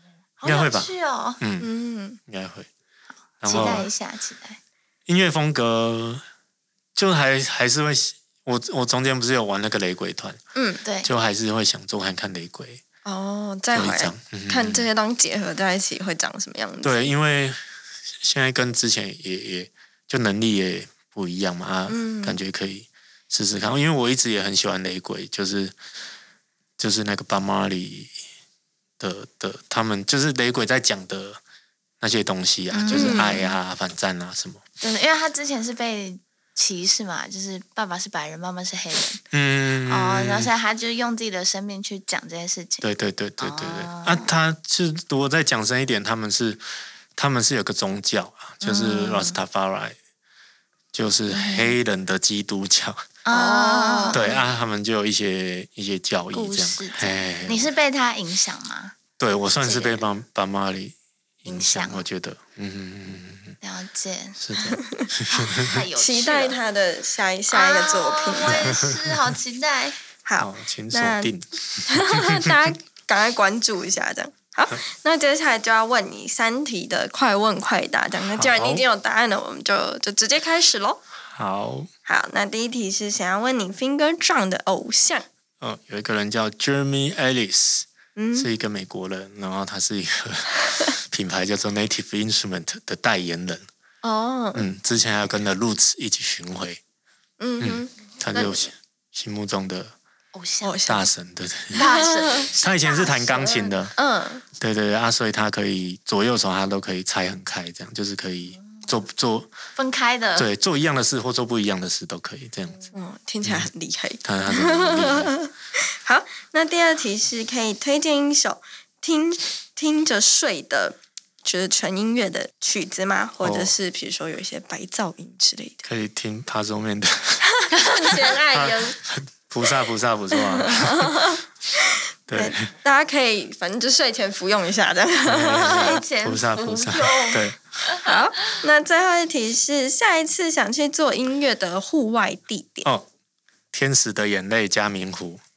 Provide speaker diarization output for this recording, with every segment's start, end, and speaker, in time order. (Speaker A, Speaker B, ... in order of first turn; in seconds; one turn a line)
Speaker A: 0.4-1.4
Speaker B: 0.4-1.7
Speaker C: 1.6-2.2
Speaker B: 2.2-2.7
Speaker B: 3.4-3.9
Speaker A: 3.4-4.6
Speaker B: 5.1-6.2
Speaker B: 7.0-10.4
Speaker C: 10.5-10.8
Speaker A: 10.8-11.1
Speaker B: 11.0-12.8
Speaker C: 13.0-17.1
Speaker B: 13.7-14.9
Speaker B: 16.8-17.6
Speaker B: 18.2-25.8
Speaker C: 21.9-22.4
Speaker B: 26.8-28.1
Speaker B: 29.0-31.4
Speaker B: 32.0-34.6
Speaker A: 32.7-33.5
Speaker C: 32.9-33.4
Speaker A: 34.8-39.2
Speaker B: 39.3-40.5
Speaker A: 39.9-42.8
Speaker B: 42.8-46.6
Speaker A: 43.4-44.3
Speaker B: 47.1-50.0
Speaker A: 48.6-49.4
Speaker B: 50.9-53.0
Speaker A: 51.3-51.7
Speaker A: 53.2-54.4
Speaker C: 53.3-54.4
Speaker B: 54.1-57.7
Speaker A: 56.3-59.0
Speaker B: 59.2-63.6
Speaker A: 59.6-60.0
Speaker A: 61.5-62.0
Speaker A: 63.6-64.4
Speaker B: 64.4-65.8
Speaker C: 64.8-65.0
Speaker A: 65.3-66.6
Speaker C: 66.0-68.8
Speaker A: 67.5-70.0
Speaker B: 68.6-69.2
Speaker C: 70.2-81.0
Speaker B: 70.4-72.7
Speaker B: 78.3-78.8
Speaker B: 81.3-81.9
Speaker C: 82.0-85.2
Speaker B: 85.6-93.7
Speaker C: 88.2-88.5
Speaker C: 94.0-94.7
Speaker B: 94.5-96.8
Speaker C: 97.4-98.7
Speaker B: 97.6-99.9
Speaker A: 100.3-100.8
Speaker C: 100.6-101.1
Speaker B: 100.8-101.9
Speaker A: 101.7-103.7
Speaker C: 101.7-102.5
Speaker B: 102.5-103.9
Speaker C: 103.9-104.4
Speaker B: 104.6-109.5
Speaker A: 109.8-110.5
Speaker B: 110.3-112.9
Speaker C: 112.9-125.8
Speaker B: 113.4-113.7
Speaker B: 114.2-115.3
Speaker B: 123.4-123.7
Speaker B: 125.8-131.4
Speaker C: 127.6-129.0
Speaker A: 127.7-128.1
Speaker C: 130.3-136.0
Speaker B: 132.3-132.7
Speaker B: 135.2-137.6
Speaker A: 135.4-138.6
Speaker C: 138.0-142.9
Speaker B: 143.7-145.4